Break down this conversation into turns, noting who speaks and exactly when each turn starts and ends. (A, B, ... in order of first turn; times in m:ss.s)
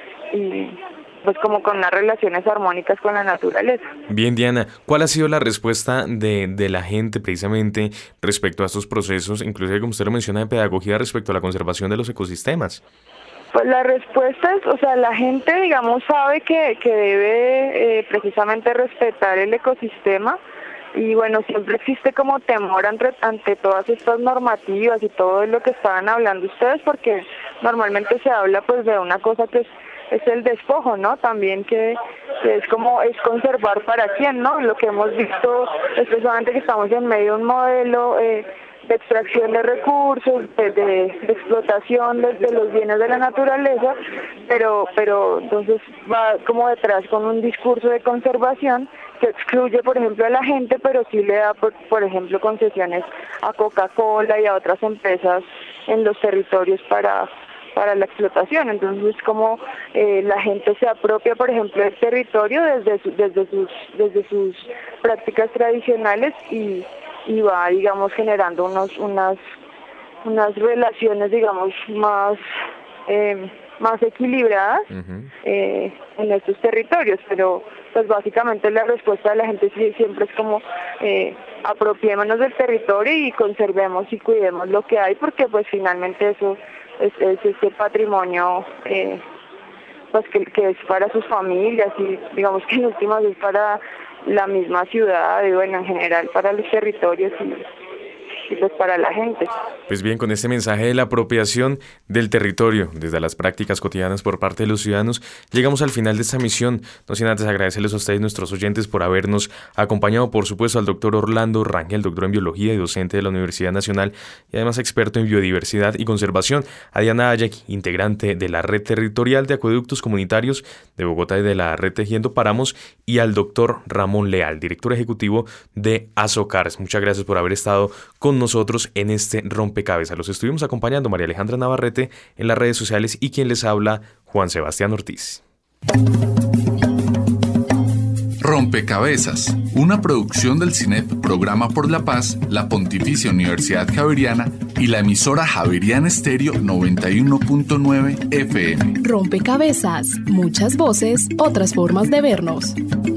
0:00.3-0:03.8 A
0:04.1-0:12.8 B
0:13.5-0:20.4 A
0:20.9-1:09.4 A
1:10.2-1:12.4 A
1:13.1-1:14.8 A
1:14.9-1:15.3 B
1:15.4-1:29.2 A
1:30.1-1:37.6 A
1:38.5-1:39.5 A
1:39.9-2:15.4 B
2:18.4-2:28.9 C
2:29.0-2:32.7 D